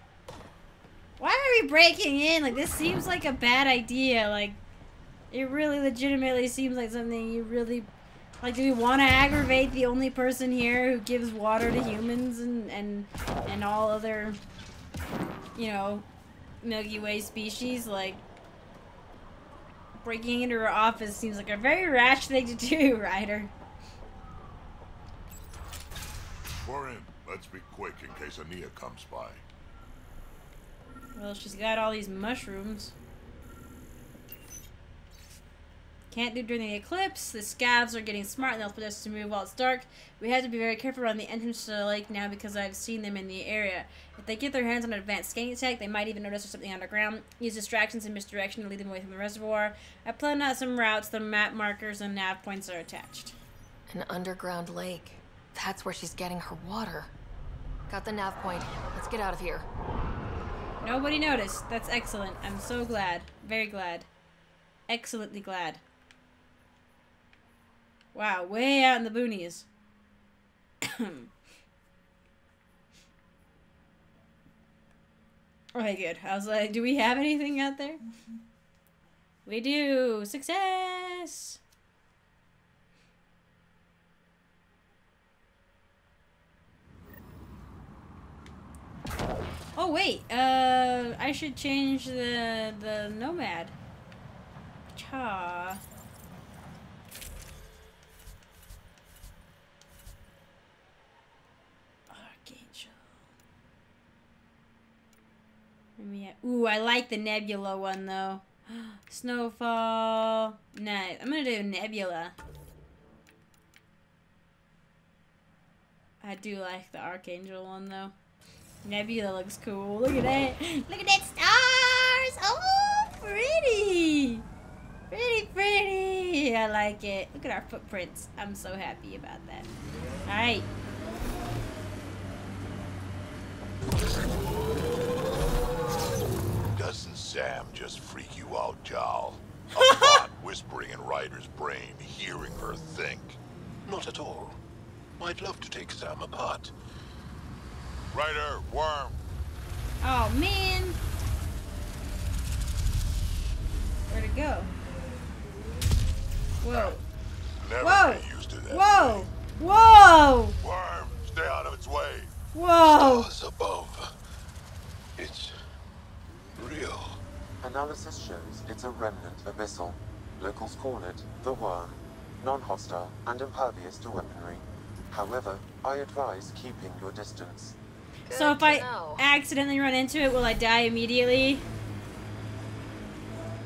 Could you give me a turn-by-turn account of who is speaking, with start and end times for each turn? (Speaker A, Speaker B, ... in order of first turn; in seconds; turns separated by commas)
Speaker A: 1.2-4.6, Speaker A: 5.3-7.9, Speaker A: 8.4-14.4, Speaker A: 15.6-16.1, Speaker A: 16.6-18.2, Speaker A: 20.0-23.5, Speaker B: 26.6-29.4, Speaker A: 31.1-32.9, Speaker A: 36.1-53.4, Speaker C: 53.9-57.1, Speaker C: 57.9-59.7, Speaker A: 60.8-64.1, Speaker A: 64.9-65.8, Speaker A: 68.1-69.7, Speaker A: 70.8-71.3, Speaker A: 75.7-78.0, Speaker A: 79.5-81.6, Speaker A: 89.8-93.7, Speaker A: 94.9-95.8, Speaker A: 102.1-103.2, Speaker A: 106.0-112.3, Speaker A: 116.2-118.1, Speaker A: 118.8-124.4, Speaker A: 125.1-129.7, Speaker A: 130.2-130.7, Speaker B: 136.7-143.4, Speaker D: 143.8-144.6, Speaker D: 145.2-146.7, Speaker B: 148.1-149.2, Speaker A: 150.0-151.0, Speaker A: 154.1-154.7, Speaker A: 156.6-157.0, Speaker B: 156.6-157.0, Speaker B: 157.6-159.3, Speaker A: 157.8-160.6, Speaker B: 160.6-162.3, Speaker A: 162.5-163.3, Speaker D: 162.9-164.1, Speaker D: 165.2-165.6, Speaker D: 166.6-167.2, Speaker E: 167.6-177.8, Speaker C: 178.3-179.2, Speaker A: 178.3-181.6